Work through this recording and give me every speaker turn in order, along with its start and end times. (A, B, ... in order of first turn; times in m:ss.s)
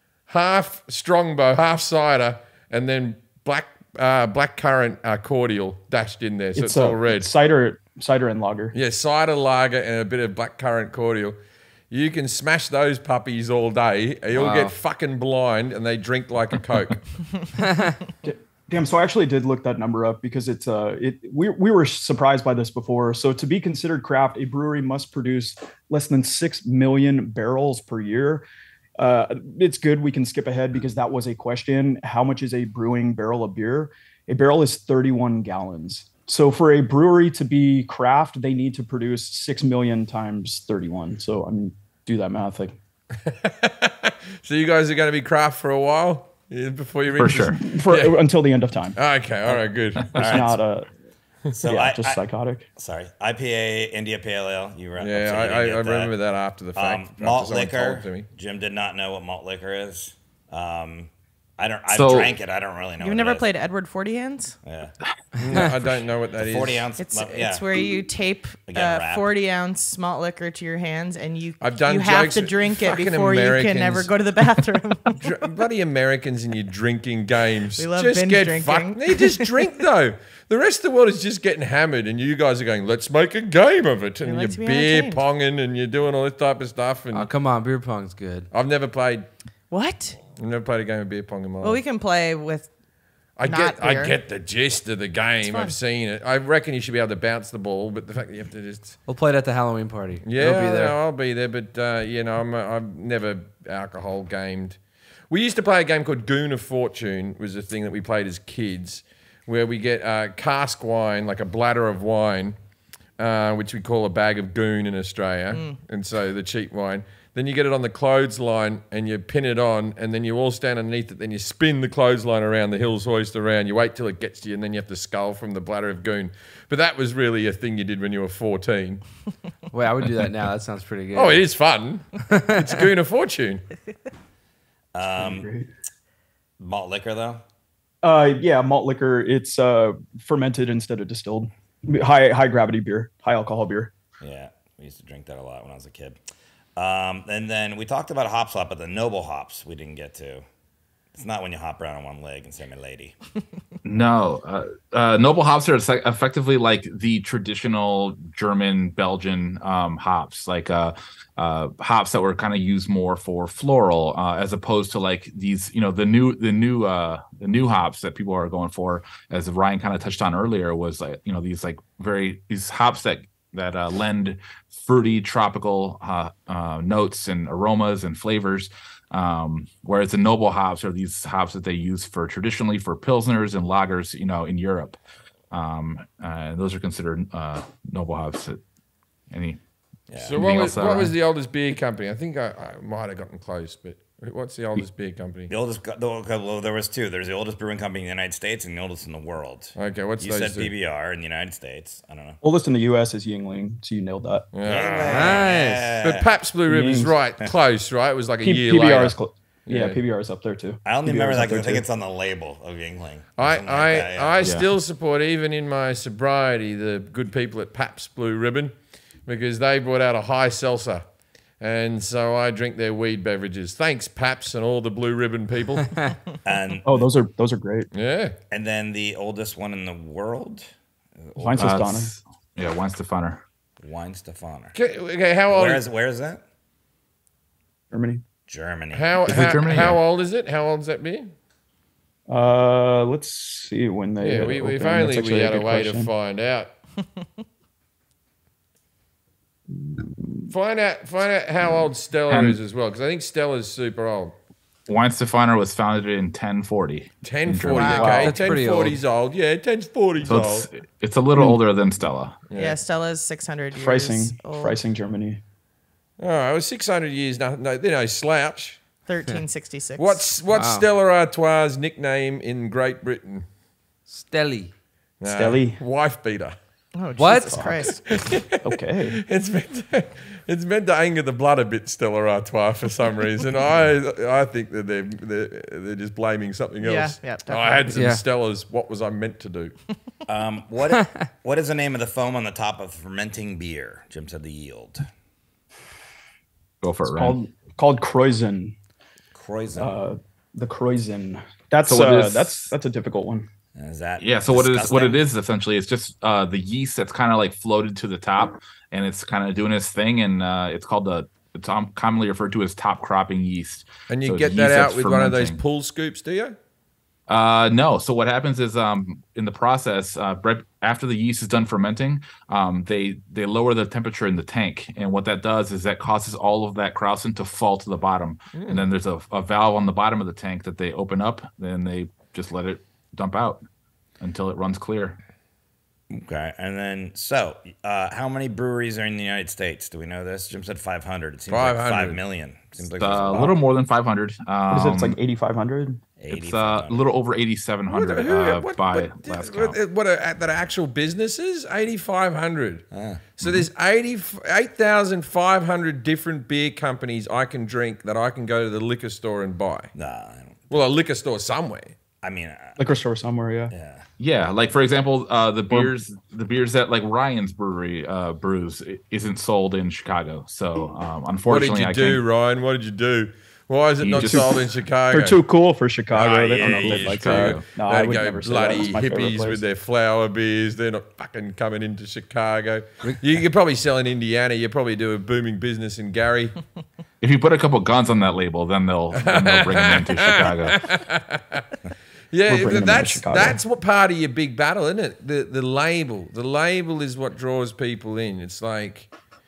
0:00.3-0:07.3 A
0:06.6-0:08.8 B
0:08.7-0:11.4 A
0:11.9-0:17.1 A
0:14.3-0:14.7 C
0:18.2-0:28.4 B
0:29.0-0:42.8 B
0:43.3-0:48.2 A
0:47.2-0:47.6 D
0:47.6-0:49.0 B
0:49.0-0:50.3 A
0:50.1-0:50.6 E
0:50.2-0:50.4 D
0:50.2-0:50.9 B
0:51.5-0:52.2 E
0:51.7-0:52.7 B
0:52.8-0:56.2 E
0:55.0-0:58.3 A
0:56.8-1:03.5 E
1:01.9-1:02.3 D
1:03.0-1:04.6 F
1:04.6-1:05.0 E
1:05.4-1:06.9 A
1:06.4-1:07.7 E
1:07.0-1:15.2 F
1:08.7-1:09.3 E
1:11.6-1:14.1 A
1:15.2-1:27.3 A
1:17.8-1:19.6 F
1:24.2-1:25.2 F
1:27.1-1:28.5 C
1:28.5-1:29.3 A
1:29.7-1:30.2 F
1:30.4-1:31.8 A
1:31.6-1:32.7 F
1:33.4-1:39.0 A
1:33.4-1:34.2 F
1:35.4-1:35.8 F
1:39.1-1:41.0 C
1:40.2-1:44.8 A
1:45.3-1:52.6 A
1:53.2-2:09.0 A
2:09.7-2:11.4 C
2:11.1-2:13.6 A
2:14.9-2:15.5 E
2:15.2-2:15.7 B
2:16.6-2:17.4 E
2:18.0-2:23.9 B
2:24.2-2:26.2 E
2:26.8-2:30.4 E
2:31.1-2:33.2 E
2:33.8-3:05.0 D
3:05.5-3:08.6 D
3:09.3-3:09.6 D
3:10.1-3:10.4 E
3:10.2-3:15.5 A
3:10.4-3:11.1 D
3:15.5-3:22.4 E
3:19.8-3:20.7 A
3:22.4-3:24.5 B
3:24.5-3:25.5 A
3:24.6-3:26.3 E
3:25.0-3:25.9 C
3:26.0-3:30.0 A
3:26.7-3:27.1 B
3:28.4-3:31.8 B
3:30.8-3:34.6 E
3:33.4-3:38.8 A
3:39.3-3:41.0 A
3:41.6-3:46.1 A
3:46.4-3:47.1 E
3:46.8-3:47.9 B
3:47.9-3:48.4 A
3:48.5-3:51.7 E
3:51.4-3:52.2 B
3:51.6-3:53.4 D
3:53.8-3:54.8 E
3:54.8-3:55.9 A
3:55.5-3:56.4 E
3:57.9-3:58.2 B
3:58.5-3:59.2 E
3:58.9-4:01.3 A
3:59.3-4:00.0 D
4:02.3-4:06.1 B
4:04.2-4:06.7 A
4:09.7-4:10.5 B
4:10.5-4:14.4 A
4:12.3-4:12.6 D
4:14.9-4:18.2 D
4:17.2-4:20.7 A
4:17.8-4:18.4 B
4:18.2-4:19.0 C
4:20.2-4:22.4 D
4:22.5-4:22.8 A
4:22.6-4:24.8 F
4:23.8-4:25.4 B
4:26.2-4:28.8 A
4:29.1-4:30.3 F
4:30.0-4:33.4 A
4:30.5-4:30.9 C
4:34.1-4:34.7 C
4:35.2-4:36.6 A
4:35.2-4:35.8 B
4:37.0-4:38.0 F
4:37.2-4:38.0 C
4:37.4-4:37.9 B
4:38.1-4:49.8 A
4:38.6-4:39.2 B
4:46.8-4:47.9 F
4:47.9-4:48.2 C
4:50.3-4:55.1 E
4:56.8-4:57.4 D
4:57.1-4:58.8 B
4:59.3-5:00.0 E
4:59.8-5:03.5 B
5:01.9-5:02.6 D
5:03.8-5:05.2 E
5:04.2-5:15.6 D
5:14.1-5:16.6 A
5:17.3-5:33.6 D
5:28.5-5:28.9 A
5:34.2-5:35.2 D
5:36.1-5:43.6 E
5:41.5-5:42.2 A
5:43.0-5:45.2 D
5:44.7-5:46.0 B
5:46.2-5:47.0 E
5:46.3-5:49.8 D
5:47.9-5:52.8 A
5:52.9-5:53.2 E
5:53.4-5:59.9 A
5:59.9-6:00.8 E
6:00.7-6:02.0 A
6:02.2-6:02.8 E
6:02.8-6:03.7 B
6:03.7-6:04.1 E
6:04.2-6:12.2 D
6:11.5-6:15.4 A
6:14.0-6:14.7 D
6:14.3-6:19.6 B
6:16.1-6:26.6 A
6:16.6-6:17.7 D
6:27.2-6:30.8 D
6:29.1-6:31.7 A
6:32.3-6:39.1 A
6:32.5-6:33.6 B